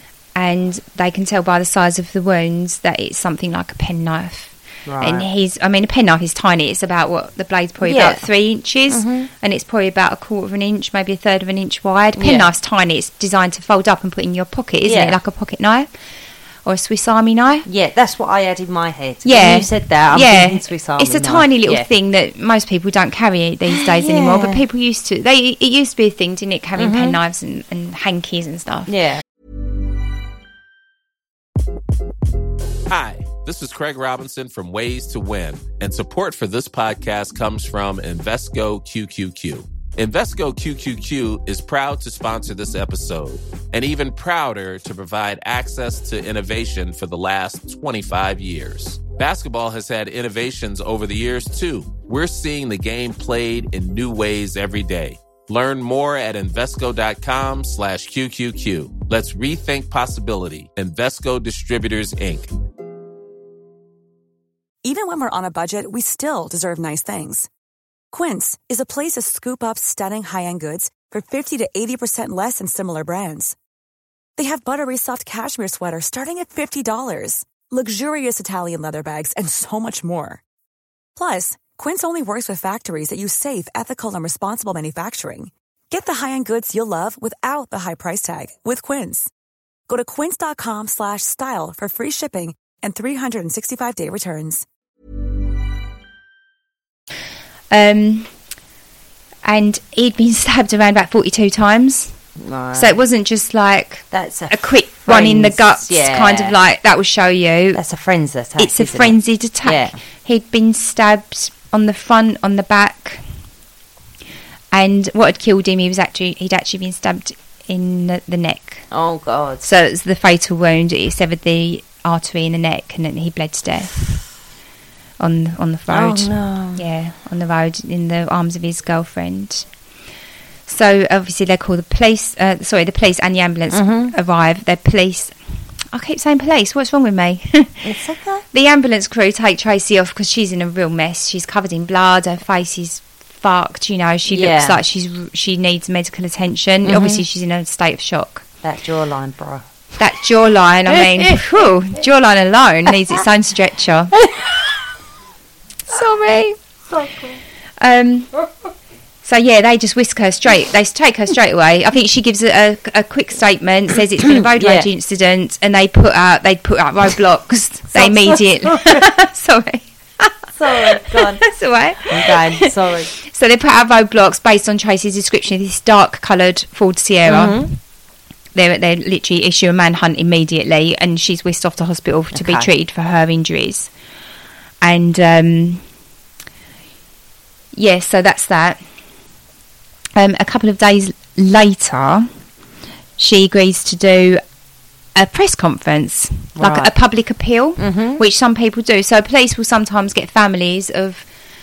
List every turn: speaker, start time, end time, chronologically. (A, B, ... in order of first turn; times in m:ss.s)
0:00.4-0:15.9 A
0:04.9-0:05.3 B
0:07.8-0:08.3 B
0:08.9-0:09.3 B
0:12.2-0:12.5 B
0:14.8-0:15.2 B
0:16.6-0:17.6 A
0:17.6-0:21.9 B
0:19.2-0:28.9 A
0:23.7-0:24.6 B
0:26.8-0:27.2 B
0:28.9-0:29.2 B
0:32.9-1:02.5 C
1:04.8-1:07.5 D
1:08.1-1:13.6 D
1:14.4-1:20.4 D
1:21.2-1:29.3 D
1:29.9-1:34.6 D
1:37.7-1:38.3 A
1:39.4-1:42.2 A
1:42.4-1:43.0 B
1:42.7-1:47.8 A
1:44.1-1:46.6 B
1:47.7-1:50.0 B
1:48.6-1:53.2 A
1:54.7-1:58.8 A
1:58.9-1:59.6 B
1:59.6-2:04.0 A
2:05.2-2:09.6 A
2:05.9-2:06.9 B
2:10.6-2:15.4 A
2:13.7-2:14.1 B
2:15.9-2:17.9 A
2:17.8-2:18.4 B
2:18.5-2:28.4 A
2:24.3-2:24.8 B
2:26.8-2:27.2 B
2:28.6-2:29.6 B
2:30.0-2:34.2 A
2:30.9-2:31.4 B
2:34.2-2:34.8 B
2:35.9-2:36.6 A
2:36.9-2:37.4 B
2:37.8-2:38.3 A
2:39.2-2:57.7 A
2:44.2-2:44.9 B
2:47.9-2:49.0 B
2:50.5-2:51.5 B
2:52.1-2:53.1 B
2:57.2-2:57.7 B
2:58.5-3:03.9 A
3:02.3-3:02.7 B
3:04.8-3:05.8 A
3:07.7-3:08.8 A
3:10.2-3:12.3 A
3:13.2-3:14.4 A
3:15.2-3:21.2 A
3:16.6-3:16.9 B
3:17.8-3:18.2 B